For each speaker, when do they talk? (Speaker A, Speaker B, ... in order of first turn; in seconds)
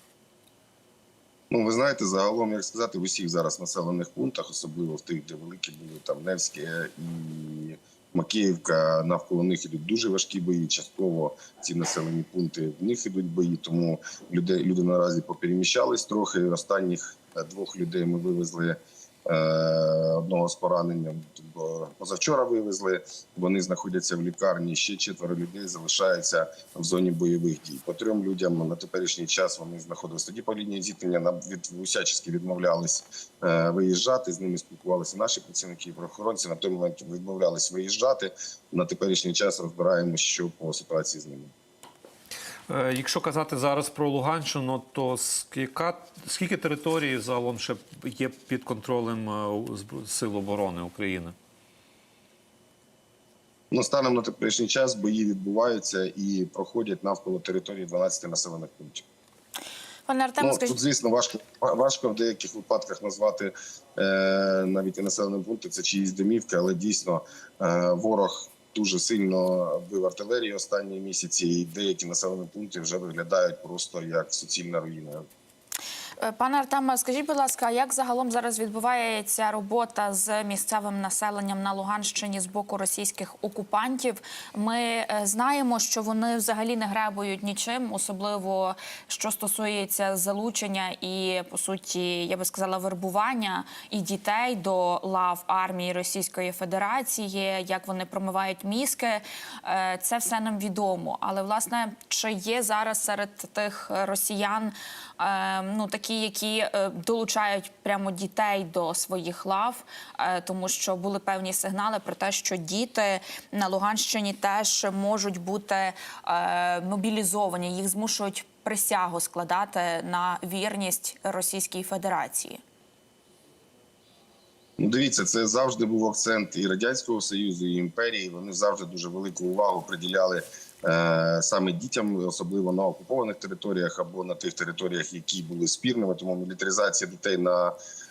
Speaker A: 1.5-41.5, 53.7-59.0, 60.4-75.2, 124.8-137.8
Speaker B: 42.7-51.4
Speaker C: 60.1-60.8, 76.2-122.6